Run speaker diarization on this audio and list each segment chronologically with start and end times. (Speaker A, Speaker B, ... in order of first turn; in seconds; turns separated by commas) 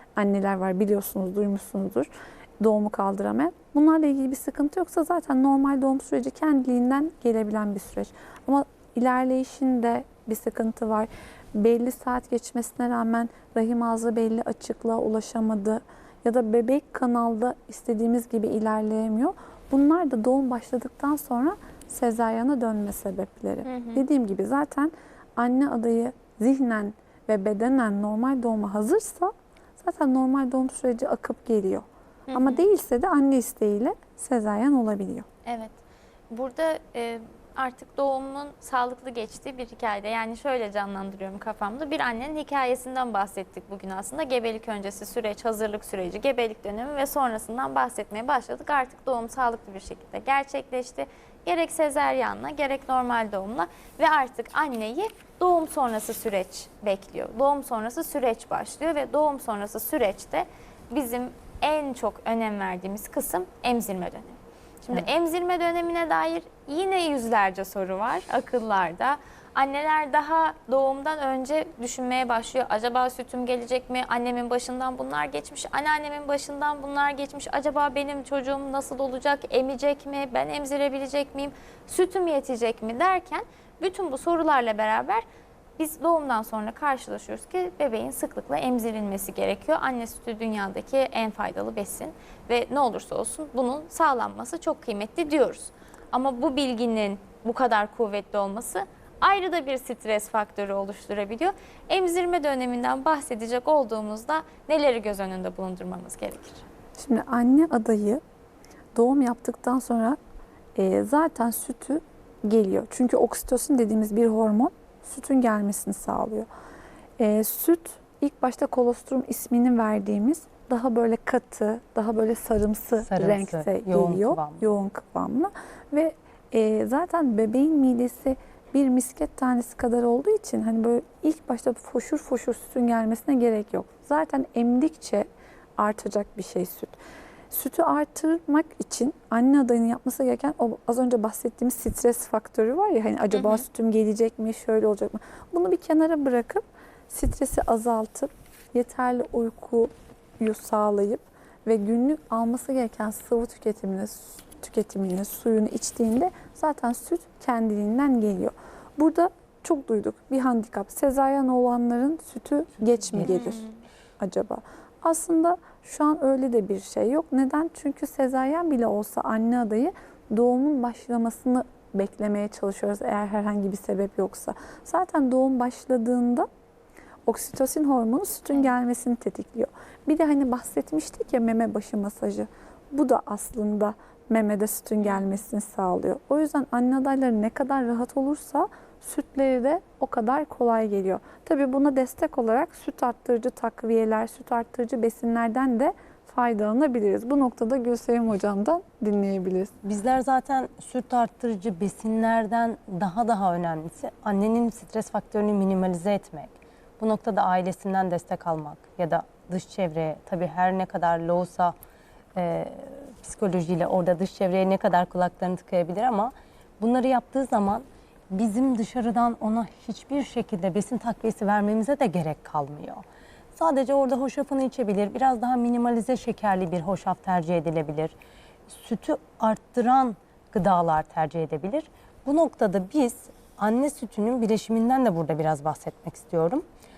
Speaker A: 0.2-35.3, Speaker B: 23.7-24.0, Speaker B: 32.3-32.7, Speaker B: 35.5-35.8, Speaker B: 36.3-85.2, Speaker B: 85.8-106.6, Speaker A: 107.0-108.2, Speaker A: 109.0-110.2, Speaker A: 110.8-116.5, Speaker A: 117.2-137.0, Speaker C: 123.0-124.7, Speaker A: 137.5-163.6, Speaker B: 143.3-143.7, Speaker C: 163.0-163.6, Speaker B: 163.2-163.8, Speaker A: 164.2-176.5, Speaker A: 177.3-199.7, Speaker B: 185.0-185.4, Speaker C: 199.8-211.7, Speaker C: 212.4-223.0, Speaker C: 223.6-228.2, Speaker C: 228.7-236.6